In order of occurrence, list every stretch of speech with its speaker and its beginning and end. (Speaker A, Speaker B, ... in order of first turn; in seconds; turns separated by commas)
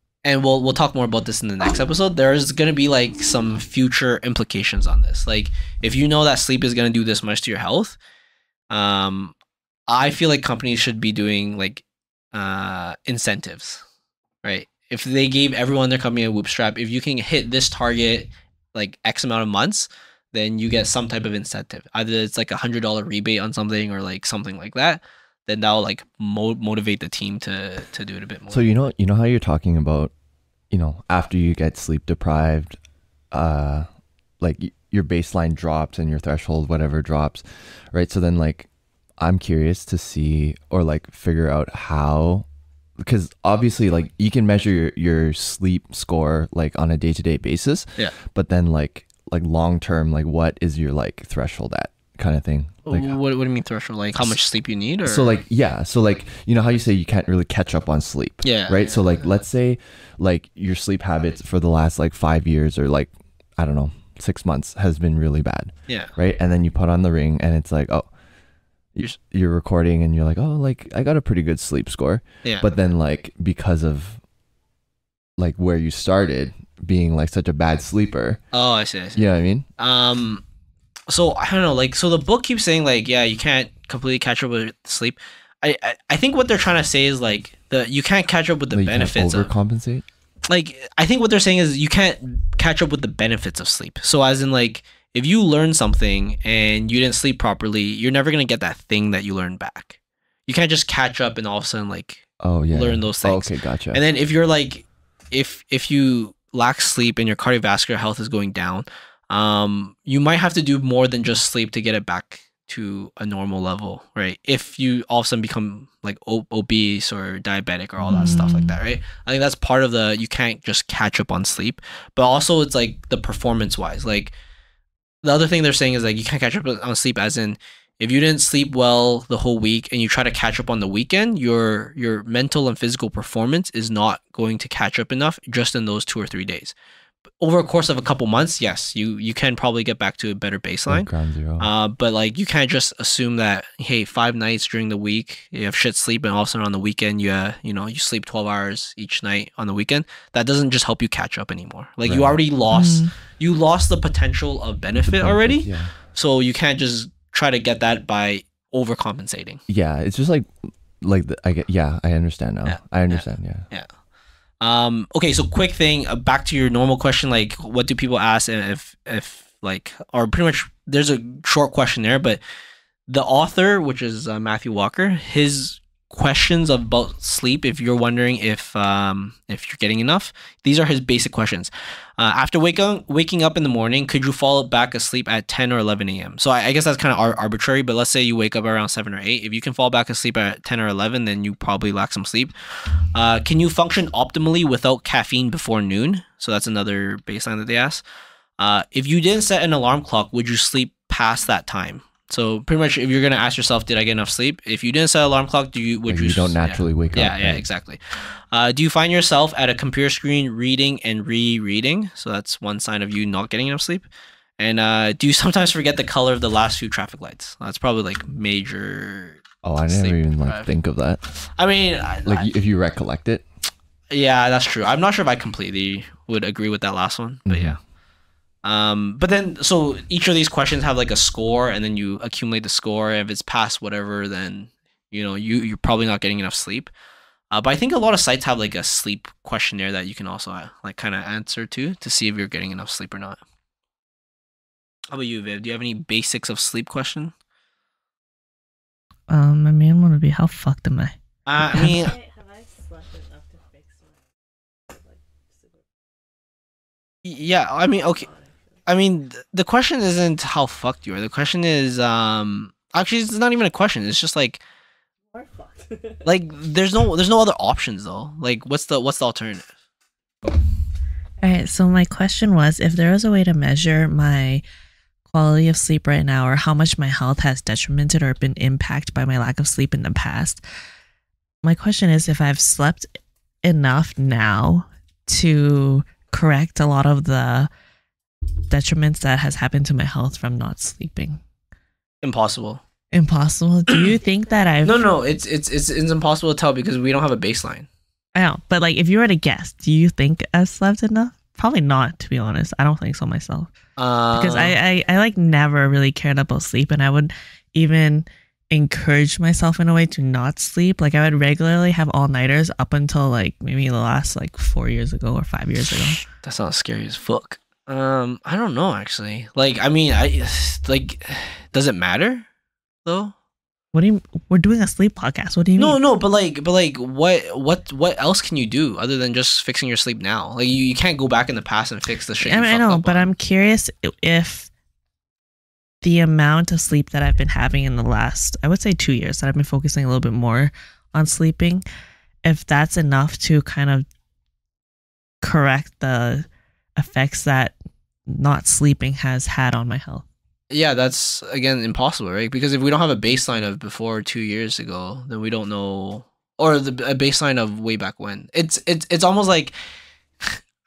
Speaker A: 0.2-8.0, Speaker A: 8.7-9.3, Speaker A: 9.9-13.8, Speaker A: 14.4-28.9, Speaker B: 28.5-30.1, Speaker B: 30.7-32.8, Speaker B: 33.3-33.9, Speaker B: 34.4-38.7, Speaker B: 39.2-42.5, Speaker B: 43.0-53.2, Speaker A: 52.9-55.3, Speaker B: 55.0-68.1, Speaker A: 58.4-59.0, Speaker B: 68.9-74.2, Speaker B: 75.4-78.4, Speaker A: 78.5-79.2, Speaker B: 79.1-79.7, Speaker A: 79.8-80.4, Speaker A: 81.1-89.5, Speaker B: 88.7-90.0, Speaker A: 90.5-124.3, Speaker B: 102.4-104.0, Speaker B: 118.0-118.4, Speaker C: 118.1-118.8, Speaker A: 125.2-136.7, Speaker A: 137.4-159.6, Speaker B: 140.9-141.7, Speaker B: 152.1-152.4, Speaker C: 152.7-153.1, Speaker B: 155.2-155.9, Speaker B: 159.7-163.7, Speaker A: 162.6-163.9, Speaker A: 164.6-172.4, Speaker A: 173.1-192.5, Speaker A: 193.1-198.0, Speaker A: 198.6-214.1, Speaker B: 206.1-207.6, Speaker A: 214.6-220.7, Speaker B: 219.6-221.2, Speaker A: 221.4-222.5, Speaker B: 222.2-223.4, Speaker A: 224.1-227.8, Speaker B: 227.4-227.8, Speaker A: 228.6-236.9, Speaker A: 237.5-243.4, Speaker A: 245.1-247.3, Speaker C: 249.3-251.1, Speaker A: 251.4-252.2, Speaker C: 251.7-252.2, Speaker A: 257.2-258.3, Speaker A: 258.9-264.6, Speaker A: 266.2-269.7, Speaker C: 271.4-274.6, Speaker C: 275.3-280.6, Speaker C: 281.6-283.1, Speaker C: 283.6-287.7, Speaker C: 288.7-291.4, Speaker A: 292.2-292.8, Speaker C: 293.1-295.0, Speaker A: 294.8-297.9, Speaker C: 298.3-303.7, Speaker A: 304.0-304.8, Speaker C: 304.3-316.2, Speaker A: 316.4-322.4, Speaker A: 323.0-323.3, Speaker C: 323.9-326.0, Speaker A: 325.8-333.3, Speaker C: 332.4-334.7, Speaker C: 336.0-341.8, Speaker C: 342.4-344.1, Speaker C: 345.4-347.8, Speaker C: 348.3-350.2, Speaker A: 350.7-359.7